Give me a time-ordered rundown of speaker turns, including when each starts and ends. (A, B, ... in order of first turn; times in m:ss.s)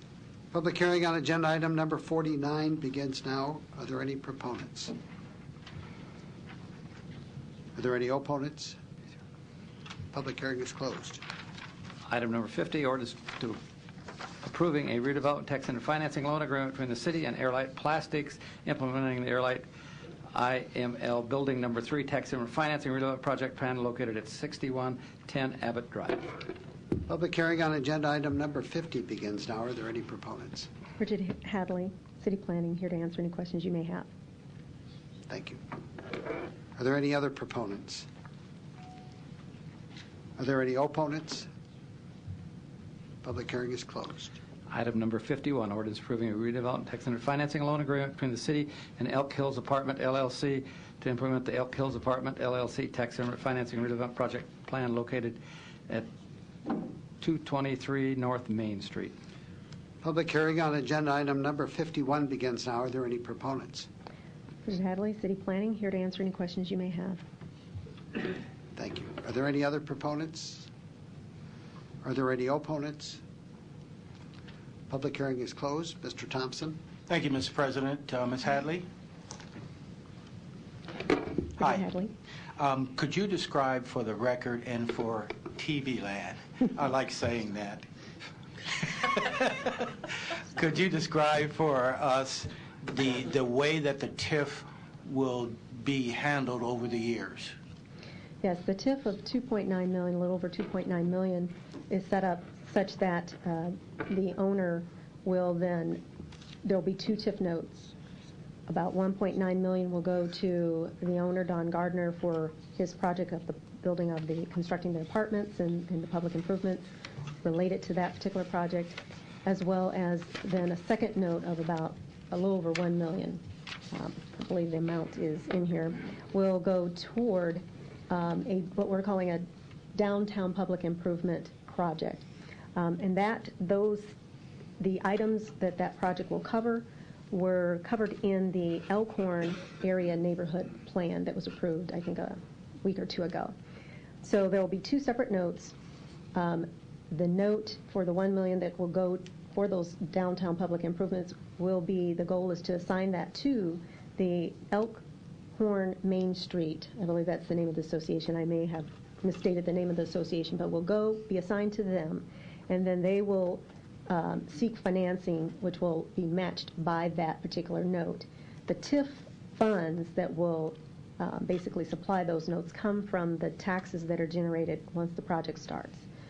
0:00.5-0:04.9 A
0:07.8-0:08.8 A
0:10.1-0:11.2 A
0:12.1-0:13.6 B
0:14.4-0:19.6 B
0:20.3-0:26.3 B
0:27.1-0:30.7 A
0:31.0-0:34.1 C
0:35.3-0:35.6 A
0:36.8-0:38.1 A
0:40.4-0:41.5 A
0:43.2-0:44.4 A
0:44.7-0:56.1 B
0:57.2-0:59.2 B
1:00.0-1:03.9 A
1:04.6-1:07.2 C
1:08.8-1:10.7 A
1:12.0-1:13.2 A
1:14.9-1:16.8 A
1:17.1-1:18.9 D
1:21.6-1:21.9 D
1:21.6-1:22.1 C
1:22.6-1:27.9 D
1:28.7-1:37.5 D
1:38.4-1:46.0 C
1:46.6-1:47.9 C
1:48.7-1:56.9 C
1:57.4-2:14.1 C
2:14.8-2:23.5 C
2:24.2-2:25.8 C
2:26.3-2:35.0 C
2:35.6-2:56.0 C